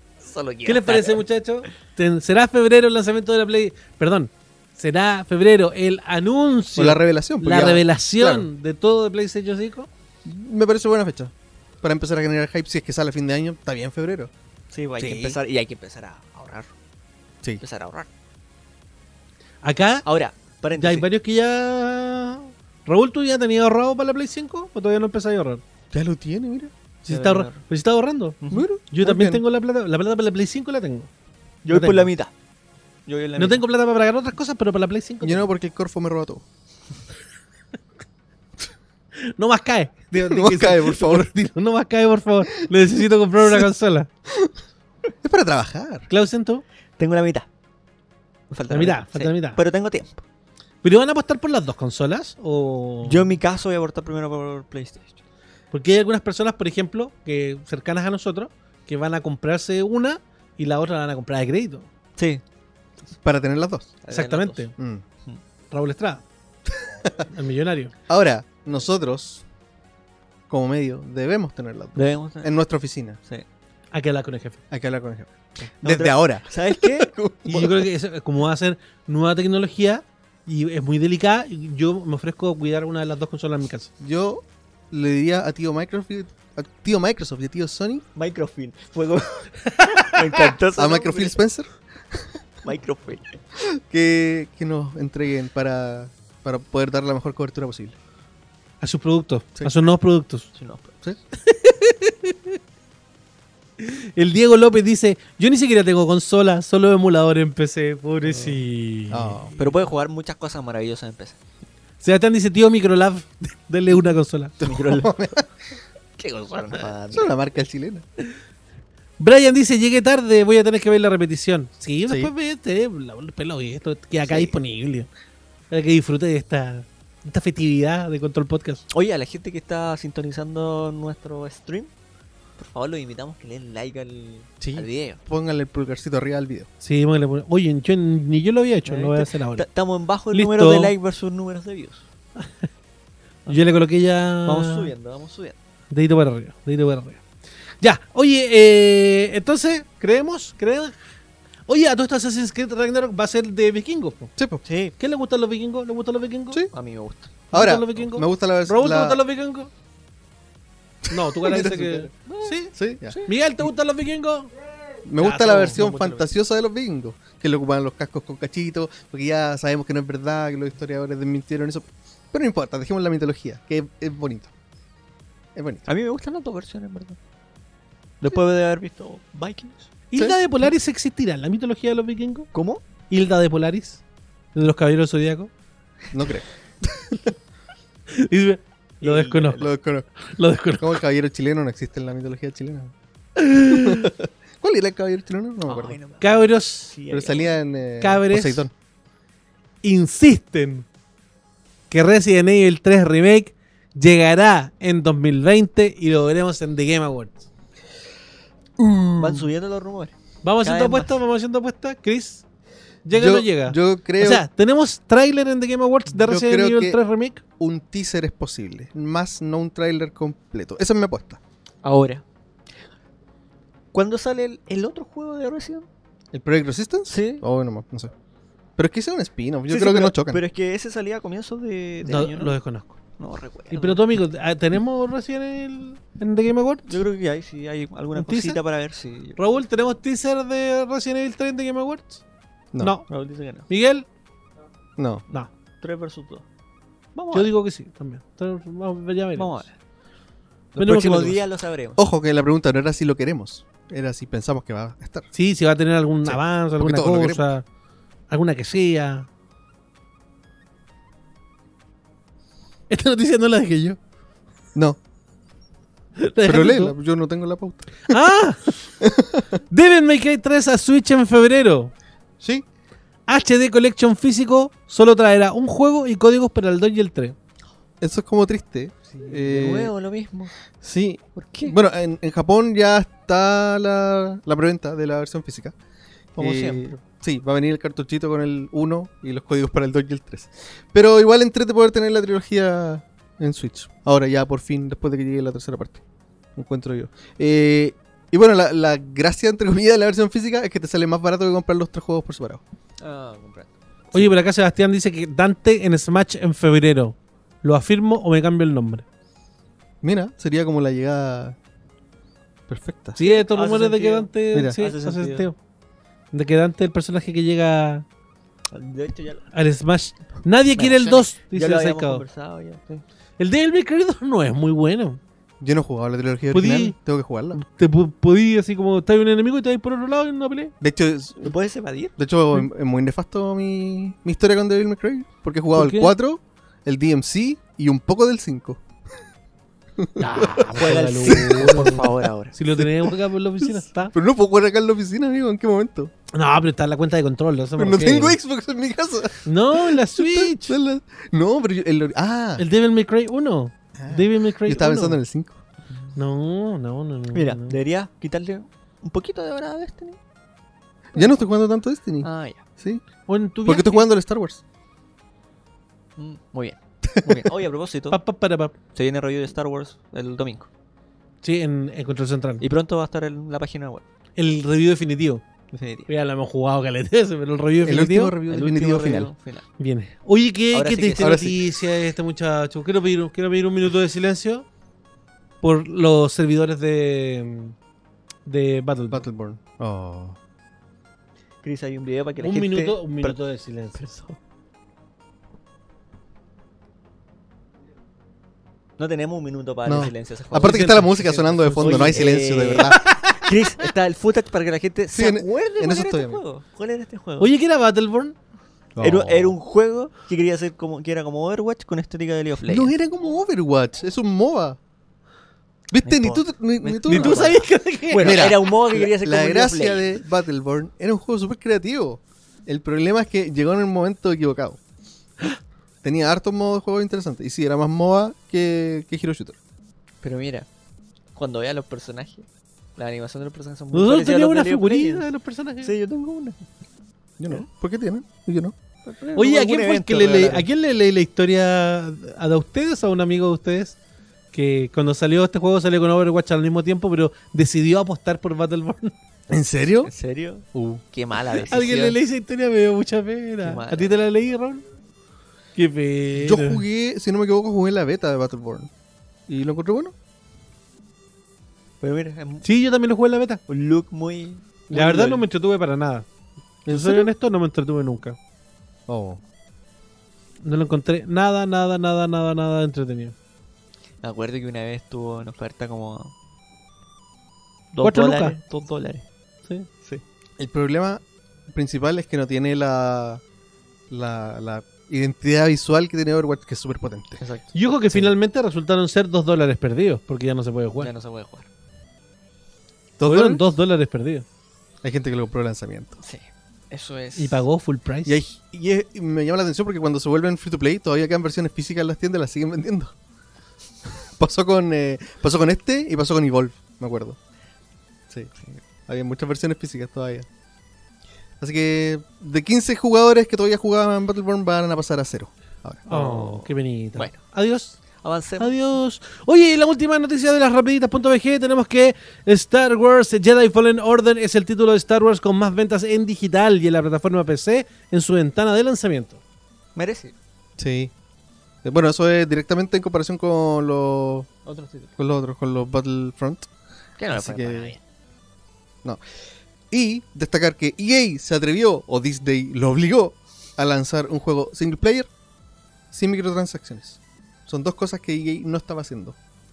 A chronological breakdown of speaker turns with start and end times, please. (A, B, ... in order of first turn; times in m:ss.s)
0:00.2-0:01.2 A
0:00.6-0:09.9 B
0:06.8-0:08.5 C
0:10.2-0:14.3 C
0:14.7-0:16.7 A
0:15.0-0:15.4 C
0:17.6-0:18.1 A
0:19.6-0:20.0 B
0:20.0-0:21.1 A
0:20.8-0:25.6 B
0:25.9-0:27.1 C
0:27.1-0:27.6 A
0:27.1-0:28.4 B
0:28.4-0:28.7 A
0:28.5-0:29.4 C
0:28.9-0:31.1 B
0:31.6-0:32.3 A
0:31.7-0:32.1 B
0:33.1-0:33.6 A
0:33.4-0:35.5 B
0:35.2-0:36.4 C
0:39.3-0:44.1 B
0:40.2-0:41.3 C
0:43.4-0:43.7 C
0:44.3-0:44.5 C
0:45.2-0:46.1 C
0:46.1-0:46.6 B
0:47.0-0:47.5 A
0:48.5-0:50.2 A
0:48.7-0:49.6 B
0:50.8-0:53.3 B
0:53.0-0:55.2 A
0:55.7-1:01.9 B
1:02.2-1:02.4 A
1:03.2-1:04.0 C
1:04.0-1:04.7 A
1:04.1-1:04.7 B
1:04.8-1:05.0 C
1:05.7-1:06.2 B
1:06.8-1:07.2 C
1:07.3-1:07.9 B
1:08.1-1:09.4 C
1:10.5-1:13.2 C
1:12.0-1:12.5 A
1:13.9-1:14.6 B
1:14.7-1:17.9 C
1:15.6-1:17.1 A
1:17.5-1:23.9 B
1:24.0-1:28.0 C
1:28.2-1:31.4 A
1:29.7-1:30.4 B
1:30.8-1:32.3 C
1:32.6-1:33.4 A
1:33.6-1:38.0 C
1:38.8-1:40.5 B
1:40.6-1:41.0 A
1:41.4-1:42.6 B
1:43.8-1:49.5 B
1:49.1-1:49.5 C
1:49.6-1:51.4 A
1:52.0-1:54.6 B
1:54.6-1:55.5 C
1:54.6-1:55.2 A
1:56.2-1:57.3 A
1:56.8-1:58.0 C
1:59.2-2:05.1 B
2:05.7-2:08.8 B
2:08.9-2:11.9 A
2:12.6-2:15.2 A
2:14.6-2:16.7 C
2:16.8-2:19.7 B
2:18.9-2:22.1 A
2:20.3-2:20.9 B
2:22.4-2:22.7 B
2:23.5-2:24.9 B
2:24.4-2:25.6 A
2:25.9-2:27.2 B
2:27.8-2:30.9 B
2:31.7-2:34.3 B
2:34.4-2:34.6 C
2:34.6-2:35.0 A
2:35.0-2:36.6 B
2:36.7-2:37.5 A
2:37.5-2:39.2 C
2:37.5-2:39.7 B
2:41.0-2:42.1 C
2:41.1-2:42.7 B
2:41.5-2:43.3 A
2:42.8-2:43.7 C
2:43.3-2:44.5 B
2:45.0-2:54.5 C
2:45.2-2:45.8 B
2:45.5-2:46.3 A
2:55.6-2:55.9 C
2:55.9-2:57.2 A
2:58.2-2:59.9 A
3:00.1-3:02.5 B
3:02.5-3:02.8 A
3:03.1-3:04.0 B
3:04.6-3:05.5 B
3:06.1-3:07.3 C
3:08.1-3:09.7 B
3:09.0-3:09.7 A
3:09.6-3:10.1 C
3:10.2-3:11.0 B
3:10.8-3:12.9 C
3:13.4-3:14.1 B
3:13.6-3:16.0 C
3:15.6-3:17.6 A
3:16.2-3:16.9 B
3:17.1-3:18.7 C
3:18.0-3:18.6 B
3:19.8-3:20.9 B
3:21.9-3:27.4 B
3:28.8-3:29.5 C
3:29.2-3:31.2 A
3:30.4-3:32.4 B
3:33.0-3:37.4 B
3:33.1-3:34.4 C
3:36.2-3:37.0 C
3:37.6-3:41.4 C
3:41.8-3:42.2 A
3:43.9-3:45.9 A
3:46.3-3:48.1 C
3:47.1-3:47.4 A
3:48.8-3:50.4 C
3:49.7-3:52.6 A
3:52.0-3:53.0 B
3:53.2-3:54.0 A
3:53.7-3:57.0 B
3:56.9-3:59.6 A
3:58.1-3:58.6 B
3:59.4-4:02.2 B
4:02.8-4:03.1 B
4:03.1-4:03.7 A
4:03.7-4:04.0 B
4:05.0-4:05.2 C
4:05.8-4:06.4 A
4:07.2-4:07.5 A
4:07.3-4:09.6 B
4:09.4-4:09.7 A
4:10.8-4:12.0 A
4:10.8-4:11.4 B
4:12.0-4:15.3 C
4:15.3-4:17.6 B
4:16.2-4:17.5 C
4:18.3-4:19.3 B
4:22.9-4:24.0 B
4:26.2-4:27.0 B
4:26.5-4:28.2 C
4:28.1-4:28.8 B
4:29.0-4:29.6 C
4:29.7-4:31.9 B
4:32.4-4:32.7 C
4:33.3-4:37.4 B
4:38.0-4:39.9 C
4:39.1-4:40.5 A
4:40.8-4:45.8 C
4:41.4-4:41.8 A
4:46.4-4:47.0 A
4:46.4-4:56.0 C
4:56.6-5:02.6 C
5:03.0-5:03.7 A
5:04.1-5:09.0 B
5:10.0-5:11.6 C
5:12.7-5:13.2 C
5:13.2-5:15.6 B
5:13.2-5:15.5 A
5:14.5-5:14.8 C
5:16.3-5:18.0 B
5:18.7-5:19.5 A
5:19.5-5:22.2 B
5:20.7-5:23.0 A
5:23.4-5:25.2 B
5:25.6-5:27.6 C
5:26.5-5:27.0 B
5:27.5-5:30.7 B
5:30.8-5:31.6 C
5:31.4-5:32.1 A
5:32.2-5:38.8 C
5:35.7-5:36.1 B
5:40.0-5:46.1 C
5:40.2-5:44.1 B
5:40.7-5:42.6 A
5:46.3-5:48.4 B
5:47.8-5:52.6 C
5:49.4-5:50.8 B
5:52.6-5:55.2 B
5:54.0-5:55.6 C
5:56.2-5:57.8 B
5:57.3-6:00.2 A
6:01.1-6:03.0 C
6:02.2-6:02.6 A
6:03.3-6:04.1 B
6:03.7-6:04.6 C
6:06.2-6:08.2 A
6:07.1-6:07.5 C
6:08.1-6:08.7 B
6:09.0-6:10.7 A
6:11.4-6:12.6 B
6:12.6-6:14.0 A
6:14.4-6:15.4 B
6:15.7-6:16.1 A
6:16.1-6:18.4 B
6:17.8-6:19.3 C
6:18.5-6:19.7 A
6:19.8-6:24.7 B
6:20.7-6:21.6 A
6:21.2-6:21.6 C
6:25.6-6:27.8 B
6:28.5-6:29.2 B
6:29.1-6:30.4 C
6:31.6-6:33.4 A
6:32.4-6:34.0 B
6:34.0-6:34.4 A
6:39.0-6:47.5 A
6:39.9-6:43.1 C
6:40.6-6:43.6 B
6:45.1-6:46.4 C
6:47.4-6:48.4 B
6:49.0-6:49.6 C
6:49.0-6:52.9 A
6:52.6-6:54.8 C
6:55.9-6:57.6 C
6:56.0-7:00.2 A
6:57.1-6:58.4 B
6:58.2-7:04.8 C
7:06.0-7:09.6 C
7:10.2-7:10.7 A
7:11.4-7:12.5 A
7:13.0-7:15.3 A
7:13.9-7:15.9 B
7:15.8-7:16.7 A
7:17.4-7:18.8 C
7:19.1-7:20.7 A
7:19.4-7:24.0 B
7:24.5-7:29.2 B
7:29.5-7:30.1 C
7:30.0-7:32.2 A
7:30.7-7:31.7 C
7:31.7-7:34.8 B
7:33.6-7:34.2 A
7:35.8-7:36.8 B
7:36.3-7:38.9 C
7:39.5-7:40.1 C
7:42.0-7:42.6 A
7:42.6-7:43.6 B
7:43.7-7:45.4 A
7:44.9-7:46.3 B
7:46.9-7:47.3 C
7:46.9-7:48.4 B
7:49.1-7:49.4 C
7:50.6-7:53.4 B
7:54.2-7:56.3 A
7:57.9-7:59.3 A
7:58.0-7:58.6 B
8:00.6-8:03.4 C
8:04.1-8:07.4 C
8:07.4-8:07.8 A
8:07.8-8:11.1 B
8:11.0-8:11.7 A
8:13.2-8:13.6 C
8:13.2-8:14.4 B
8:15.0-8:16.2 C
8:16.2-8:17.6 A
8:17.4-8:18.4 B
8:18.2-8:23.2 C
8:24.4-8:27.4 C
8:28.3-8:30.5 C
8:31.6-8:36.2 C
8:36.1-8:38.0 B
8:36.1-8:37.4 A
8:38.2-8:38.8 A
8:38.6-8:49.4 B
8:50.0-8:50.4 A
8:50.8-8:51.1 C
8:51.8-8:54.5 C
8:54.6-8:55.1 A
8:55.2-8:56.7 C
8:57.2-8:58.0 A
8:57.3-8:57.9 C
8:59.9-9:05.3 C
9:06.1-9:09.4 C